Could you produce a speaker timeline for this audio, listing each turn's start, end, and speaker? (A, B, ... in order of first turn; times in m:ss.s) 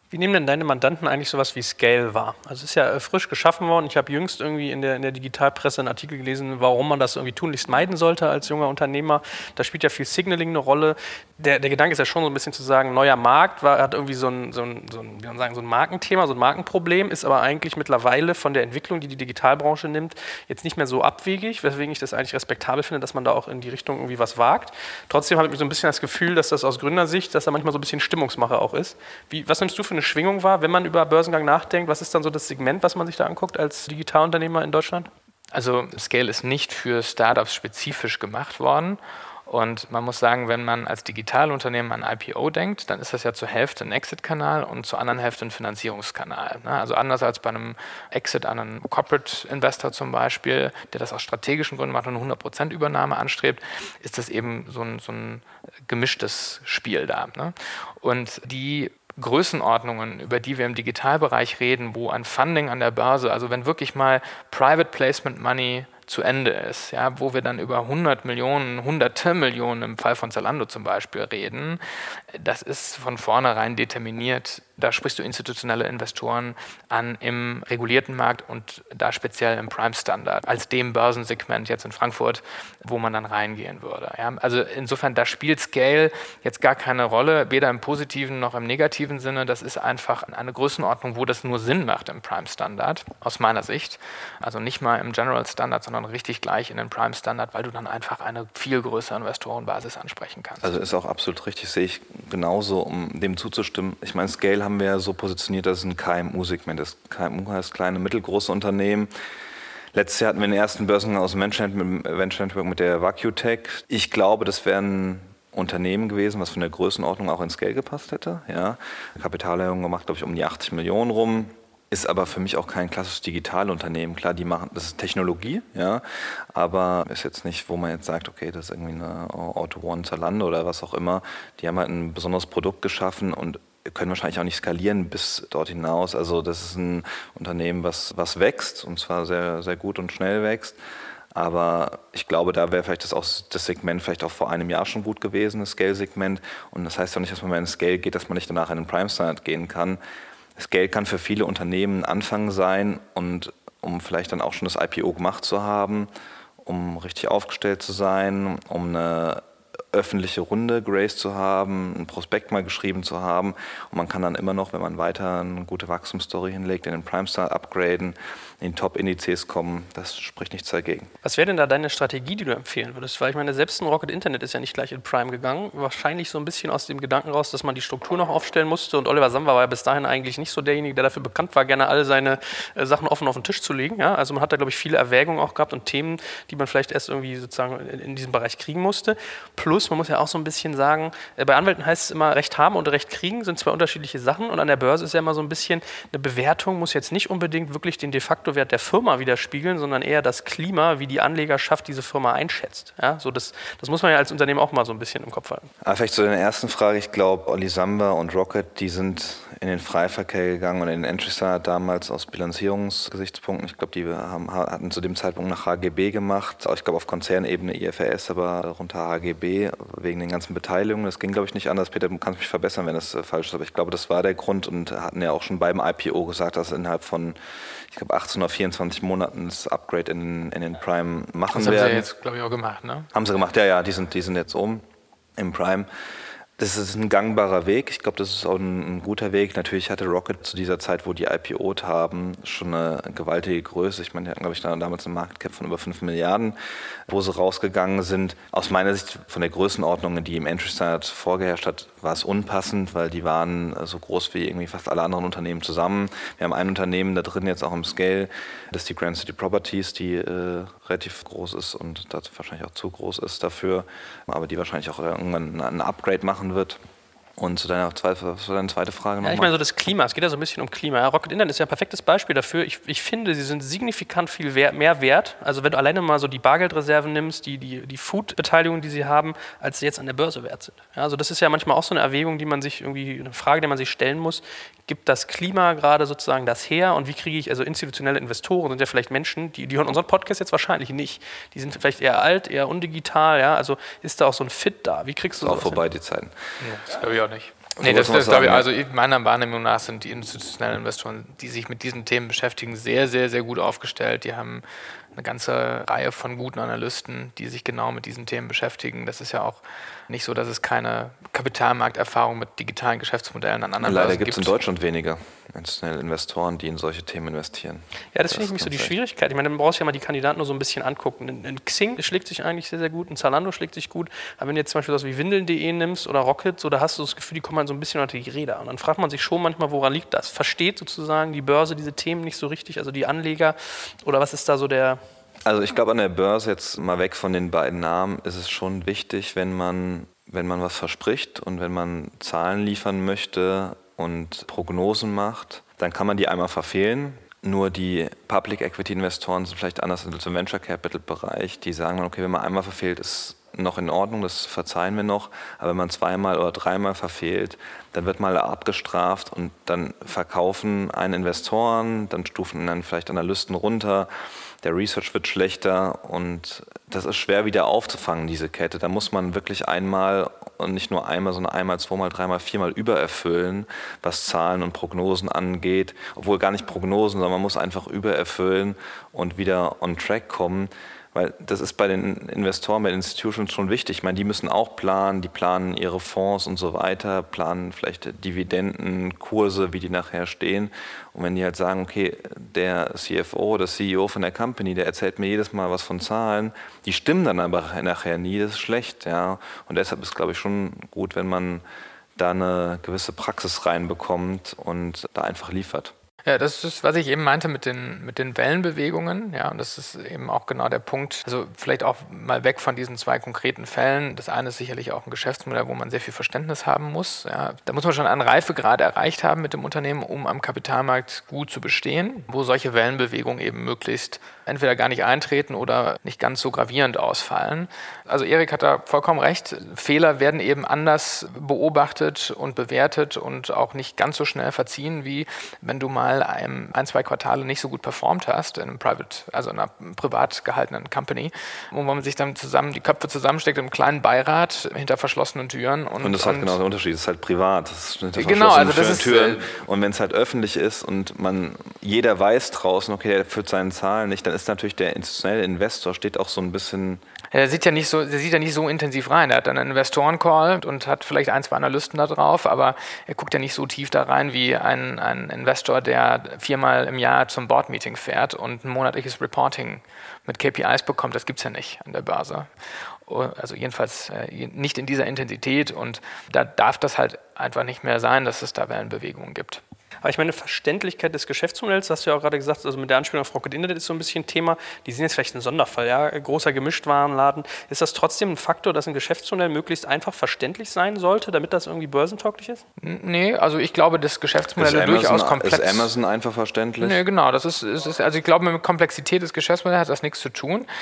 0:00.1-0:35.1 A
0:35.5-1:11.8 B
1:12.3-1:40.7 B
1:40.6-1:49.1 C
1:49.9-2:20.8 C
2:21.3-2:30.0 C
2:30.6-2:36.1 C
2:36.6-2:51.1 C
2:51.2-3:25.7 A
3:25.8-3:47.4 C
3:47.9-3:52.1 C
3:51.5-3:53.1 B
3:53.1-3:54.8 C
3:55.4-3:55.9 C
3:56.6-4:06.5 C
4:07.1-4:26.8 C
4:27.4-4:29.5 C
4:29.2-4:55.8 A
4:55.4-4:56.3 C
4:56.6-5:04.6 B
4:57.8-4:58.6 C
5:05.2-5:14.6 B
5:13.8-5:18.9 C
5:18.1-5:35.0 A
5:35.4-6:04.1 C
6:04.6-6:41.6 C
6:42.2-6:45.9 C
6:46.2-7:26.6 B
7:26.0-7:37.0 C
7:28.2-7:29.4 B
7:37.3-7:52.5 B
7:53.1-7:59.6 B
8:00.0-8:12.6 A
8:12.8-8:15.9 B
8:14.6-8:17.0 C
8:16.8-8:20.7 B